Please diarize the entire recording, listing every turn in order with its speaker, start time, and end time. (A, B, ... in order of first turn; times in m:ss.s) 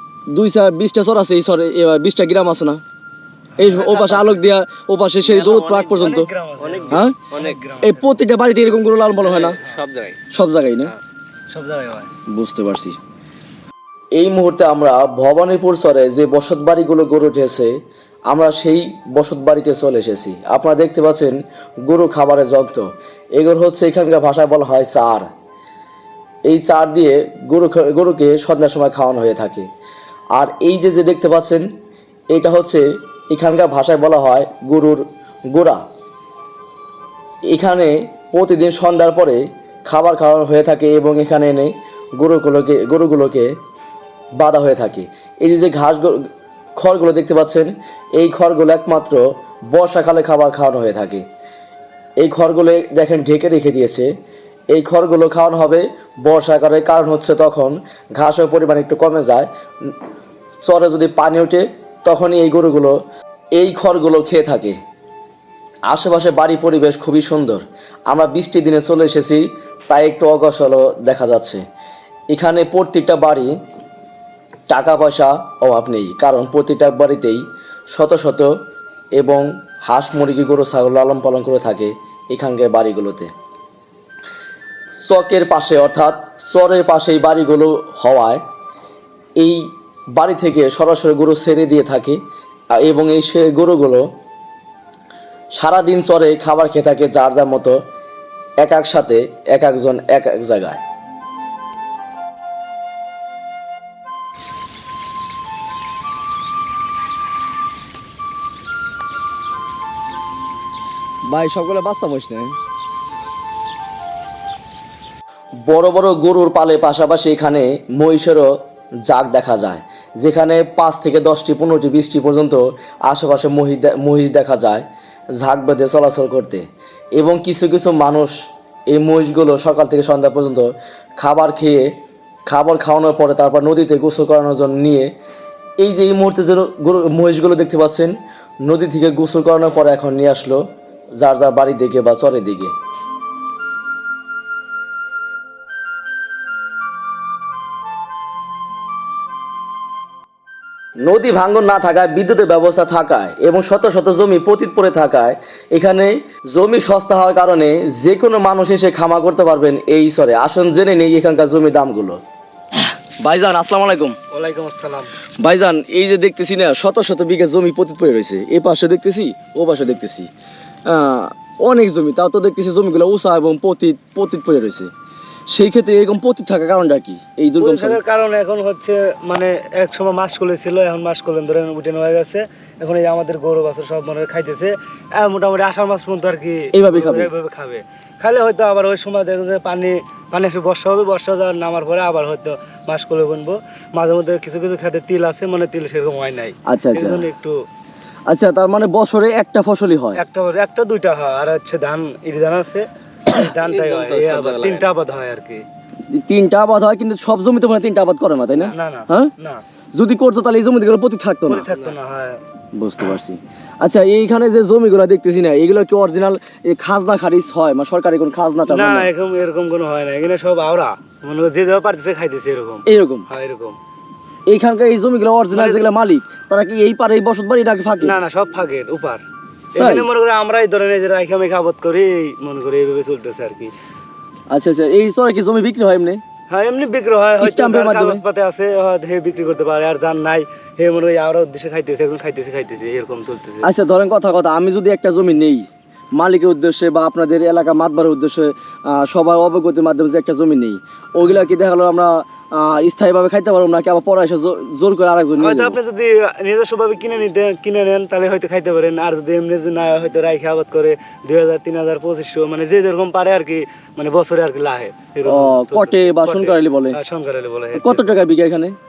0:00.3-0:02.8 A
0:03.6-0:06.3 A
0:03.6-0:04.4 B
0:05.3-0:05.8 B
0:05.6-0:08.2 C
0:06.6-0:07.6 B
0:06.9-0:07.2 A
0:07.8-0:09.6 A
0:09.2-0:10.2 B
0:10.3-0:10.9 A
0:11.5-0:12.1 C
0:12.3-0:13.0 A
0:14.2-0:17.7 A
0:18.3-0:21.4 A
0:21.9-0:25.3 A
0:26.5-0:29.7 A
0:30.3-0:31.6 A
0:32.3-0:35.8 A
0:37.5-0:43.5 A
0:44.4-0:51.2 A
0:52.2-0:54.1 A
0:54.7-0:59.9 A
1:00.6-1:03.0 A
1:03.6-1:04.8 A
1:05.9-1:11.6 A
1:12.3-1:13.5 A
1:14.7-1:18.5 A
1:19.2-1:23.3 A
1:25.0-1:28.4 A
1:29.4-1:32.2 A
1:32.8-1:34.0 A
1:35.6-1:37.8 A
1:38.6-1:40.8 A
1:51.3-1:52.6 A
1:55.7-1:58.5 A
1:59.1-2:04.9 A
2:05.4-2:08.3 A
2:08.9-2:11.9 A
2:12.5-2:15.1 A
2:15.8-2:20.6 A
2:21.2-2:22.7 A
2:31.0-2:42.2 A
2:43.2-2:44.2 A
2:44.3-2:45.1 C
2:45.4-2:50.3 A
2:50.9-2:54.9 A
2:55.5-2:58.0 A
2:57.6-3:17.6 C
3:06.7-3:07.3 A
3:16.7-3:17.2 A
3:18.3-3:20.2 A
3:20.2-3:25.6 C
3:23.6-3:24.9 B
3:26.1-3:29.3 A
3:28.7-3:29.6 C
3:29.9-3:31.7 A
3:31.5-3:32.4 C
3:32.8-3:39.1 A
3:38.7-3:43.8 C
3:42.9-3:43.3 A
3:44.5-3:48.2 A
3:45.5-3:45.8 C
3:48.0-3:49.2 C
3:49.8-3:53.7 C
3:49.8-3:50.1 A
3:54.5-3:56.2 A
3:56.5-4:03.7 C
3:57.4-3:58.2 A
4:03.6-4:15.8 A
4:15.4-4:28.2 C
4:25.2-4:27.0 A
4:27.8-4:28.8 A